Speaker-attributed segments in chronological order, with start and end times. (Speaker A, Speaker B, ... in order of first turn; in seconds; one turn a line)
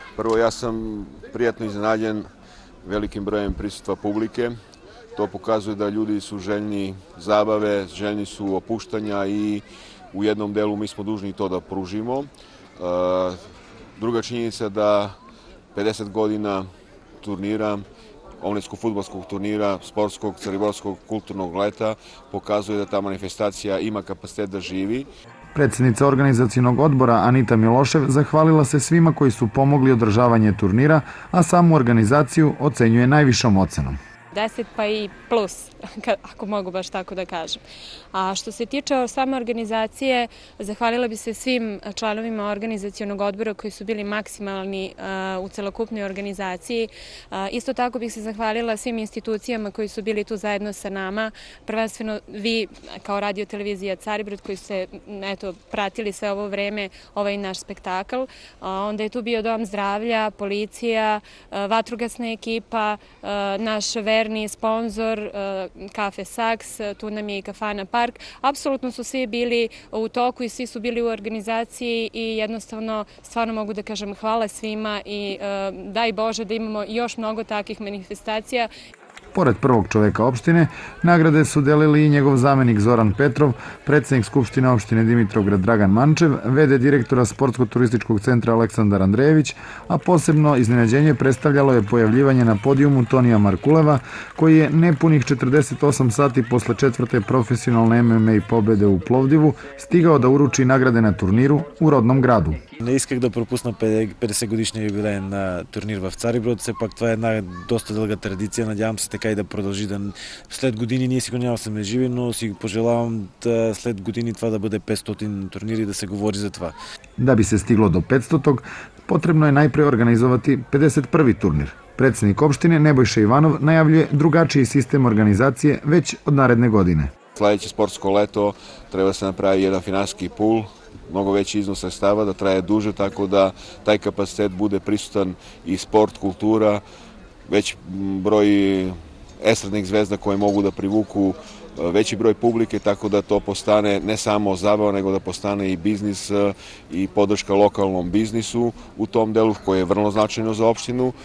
Speaker A: 0.2-2.3
Speaker A: 2.8-4.5
Speaker A: 5.2-13.4
Speaker A: 14.0-15.2
Speaker A: 15.7-16.7
Speaker A: 17.2-17.9
Speaker A: 18.4-25.1
Speaker B: 25.6-34.0
Speaker C: 34.3-37.6
Speaker C: 38.1-78.7
Speaker B: 79.3-102.6
Speaker D: 102.8-116.8
Speaker B: 117.2-127.1
Speaker A: 127.4-136.8
Speaker A: 137.5-151.1